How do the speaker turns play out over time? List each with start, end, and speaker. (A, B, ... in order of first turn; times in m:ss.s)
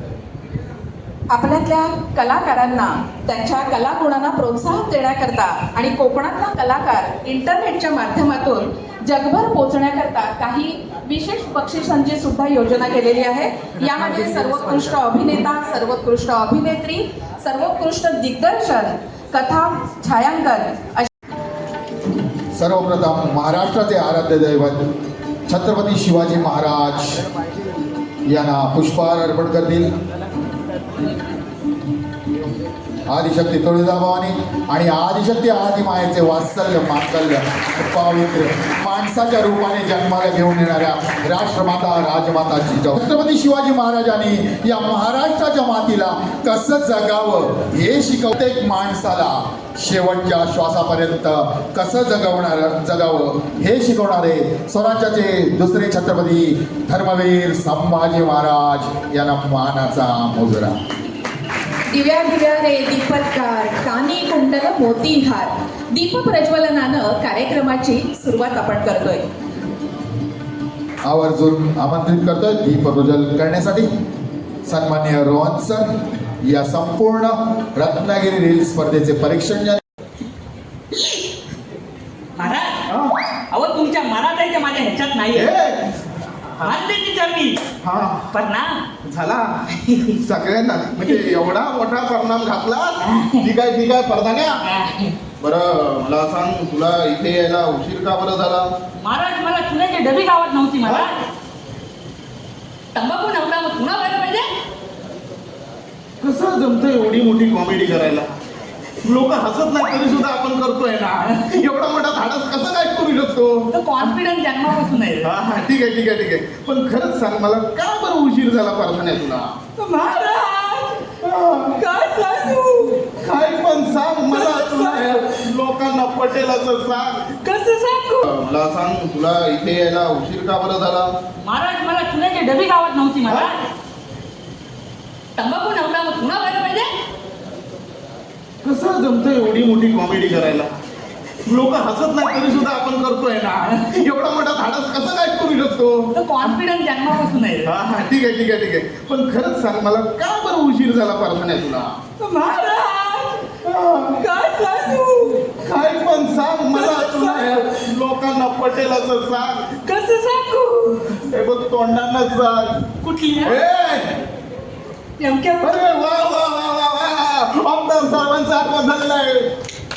0:01.3-0:21.1 A
0:22.6-0:24.9 B
0:25.5-0:27.2 B
0:28.3-0:29.9 B
0:33.1-1:00.8 B
1:01.9-1:09.2 A
1:11.0-1:13.9 B
1:14.7-1:19.8 B
1:22.4-1:22.8 C
1:23.5-1:25.5 C
1:25.3-1:25.8 D
1:26.6-1:27.6 C
1:27.8-1:28.3 D
1:28.3-1:28.8 C
1:29.1-1:29.5 D
1:29.9-1:30.1 C
1:30.2-1:34.5 D
1:33.0-1:33.5 C
1:34.7-1:35.1 C
1:35.4-1:38.7 D
1:39.0-1:41.2 C
1:43.0-1:44.5 C
1:46.2-1:48.3 D
1:49.0-1:53.5 D
1:53.7-1:55.3 C
1:55.2-1:59.5 D
1:59.8-2:01.1 C
2:01.2-2:01.8 D
2:01.7-2:03.0 C
2:03.2-2:07.2 D
2:04.3-2:05.2 C
2:07.4-2:08.3 C
2:08.3-2:11.1 D
2:11.4-2:13.5 C
2:13.3-2:13.5 D
2:15.4-2:16.9 C
2:18.6-2:20.7 D
2:21.5-2:26.1 D
2:26.2-2:27.7 C
2:27.6-2:31.9 D
2:32.2-2:33.4 C
2:33.7-2:34.2 D
2:34.1-2:35.4 C
2:35.7-2:39.6 D
2:36.7-2:37.5 C
2:39.8-2:41.2 C
2:41.3-2:42.7 D
2:43.0-2:43.6 C
2:43.4-2:44.1 D
2:45.2-2:45.8 C
2:45.6-2:49.5 D